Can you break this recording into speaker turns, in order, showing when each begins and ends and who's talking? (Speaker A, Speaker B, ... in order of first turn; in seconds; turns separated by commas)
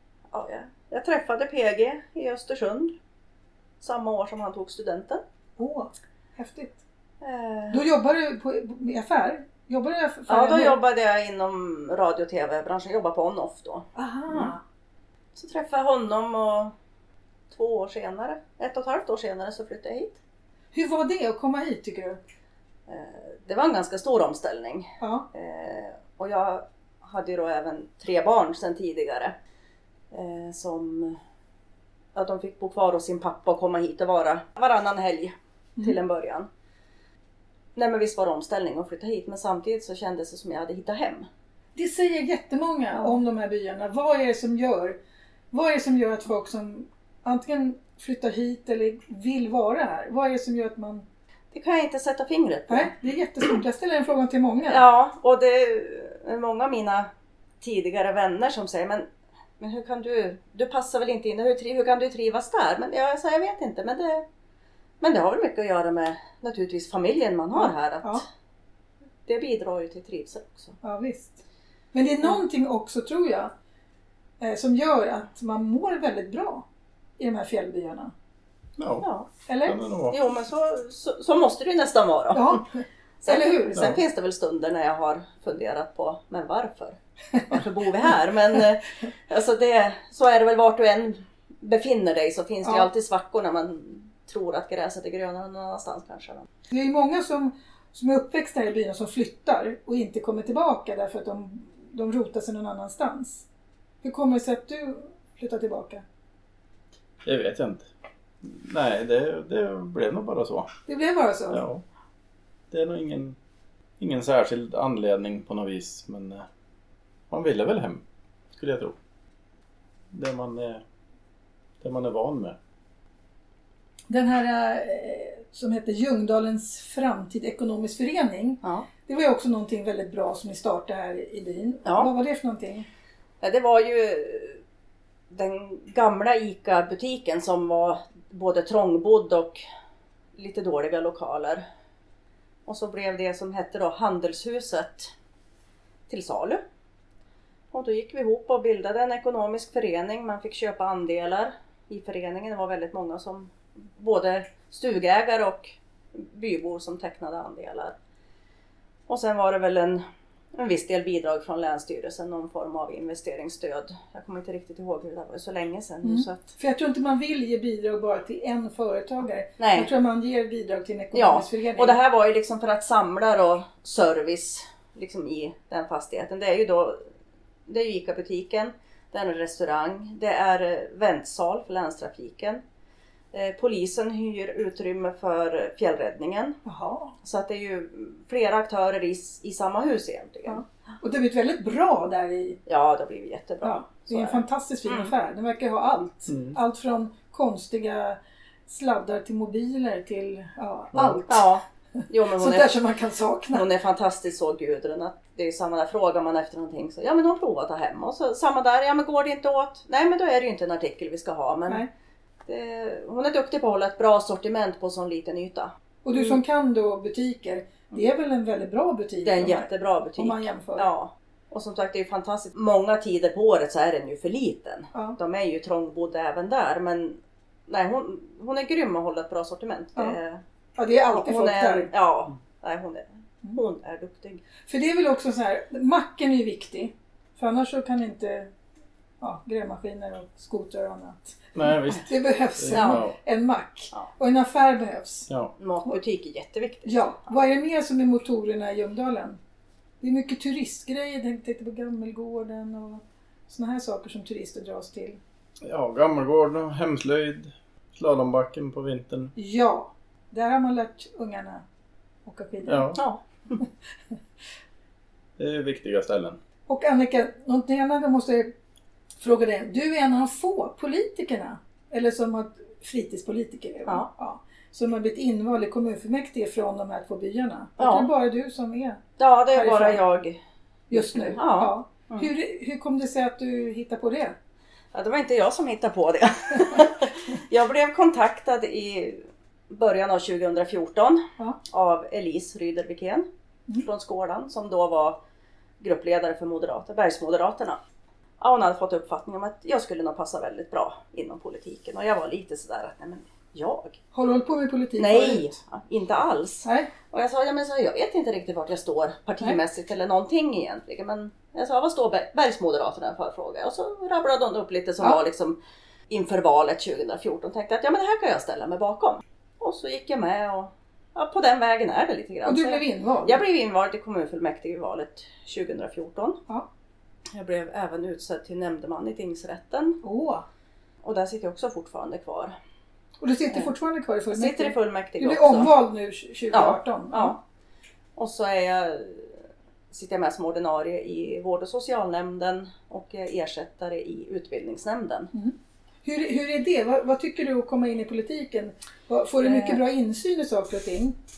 Speaker A: 0.3-2.9, Speaker A: 3.8-5.2, Speaker B: 5.6-6.8, Speaker A: 7.2-7.8, Speaker B: 7.7-10.8, Speaker A: 10.3-14.5, Speaker B: 14.0-14.6, Speaker A: 15.3-16.7, Speaker A: 17.5-20.2, Speaker B: 20.7-22.2, Speaker A: 22.9-29.4, Speaker B: 25.0-25.3, Speaker A: 30.1-31.2, Speaker A: 32.1-36.5, Speaker A: 37.8-41.3, Speaker B: 41.8-45.0, Speaker B: 45.5-51.0, Speaker A: 51.5-52.9, Speaker B: 52.7-54.8, Speaker A: 54.6-57.1, Speaker A: 57.6-59.1, Speaker A: 59.6-64.2, Speaker A: 65.0-68.2, Speaker B: 67.5-68.2, Speaker A: 69.3-70.8, Speaker B: 70.8-73.5, Speaker B: 74.4-76.7, Speaker B: 77.2-78.1, Speaker C: 78.8-79.1, Speaker A: 79.0-79.3, Speaker B: 79.5-79.8, Speaker C: 79.7-80.2, Speaker A: 80.1-82.6, Speaker B: 82.3-84.0, Speaker A: 83.2-87.0, Speaker A: 87.5-96.5, Speaker B: 96.7-103.5, Speaker B: 104.0-106.0, Speaker C: 107.2-107.9, Speaker C: 108.4-110.7, Speaker B: 110.9-111.6, Speaker C: 111.5-111.8, Speaker C: 112.7-113.4, Speaker C: 114.0-116.5, Speaker C: 117.3-118.0, Speaker C: 118.6-119.0, Speaker C: 120.1-120.8, Speaker C: 121.8-122.6, Speaker B: 124.1-132.9, Speaker A: 131.8-132.1, Speaker A: 133.4-134.6, Speaker A: 135.3-139.6, Speaker A: 140.4-141.6, Speaker A: 142.7-145.1, Speaker A: 146.1-146.6, Speaker A: 147.7-157.9, Speaker A: 159.1-160.0, Speaker A: 160.5-166.5, Speaker B: 166.0-172.0, Speaker A: 169.6-169.9, Speaker A: 171.1-177.0, Speaker A: 177.7-182.6, Speaker A: 183.3-186.6, Speaker B: 186.7-187.1, Speaker A: 187.2-190.6, Speaker B: 190.5-192.6, Speaker A: 192.7-195.1, Speaker B: 193.6-201.5, Speaker C: 196.3-196.6, Speaker C: 200.9-201.2, Speaker A: 201.3-202.8, Speaker B: 202.3-203.7, Speaker A: 203.5-211.9, Speaker A: 212.5-216.4, Speaker B: 216.1-220.9, Speaker A: 219.2-230.4, Speaker B: 230.8-231.9, Speaker A: 231.1-234.4, Speaker B: 234.7-238.5, Speaker B: 239.2-245.3, Speaker C: 241.6-243.2, Speaker A: 242.7-243.0, Speaker A: 245.6-247.0, Speaker B: 246.8-249.4, Speaker B: 250.0-255.2, Speaker C: 255.6-259.3, Speaker B: 259.4-261.6, Speaker B: 262.3-263.0, Speaker C: 262.7-263.0, Speaker A: 263.0-263.6, Speaker C: 265.4-266.4, Speaker B: 266.7-268.5, Speaker B: 269.2-279.0, Speaker A: 277.8-278.1, Speaker A: 279.2-280.4, Speaker B: 279.5-280.0, Speaker B: 280.9-284.4, Speaker A: 281.2-282.3, Speaker A: 284.9-293.3, Speaker A: 293.8-295.2, Speaker A: 295.8-297.8, Speaker A: 298.4-304.0, Speaker B: 304.1-305.5, Speaker A: 305.0-315.6, Speaker B: 306.6-306.9, Speaker A: 316.1-326.4, Speaker B: 322.4-323.4, Speaker A: 327.3-330.0, Speaker B: 330.0-330.4, Speaker A: 331.0-332.6, Speaker B: 333.2-337.4, Speaker A: 334.3-335.7, Speaker A: 336.5-337.4, Speaker A: 338.2-339.4, Speaker A: 339.9-345.3, Speaker B: 345.3-351.2, Speaker A: 349.4-349.8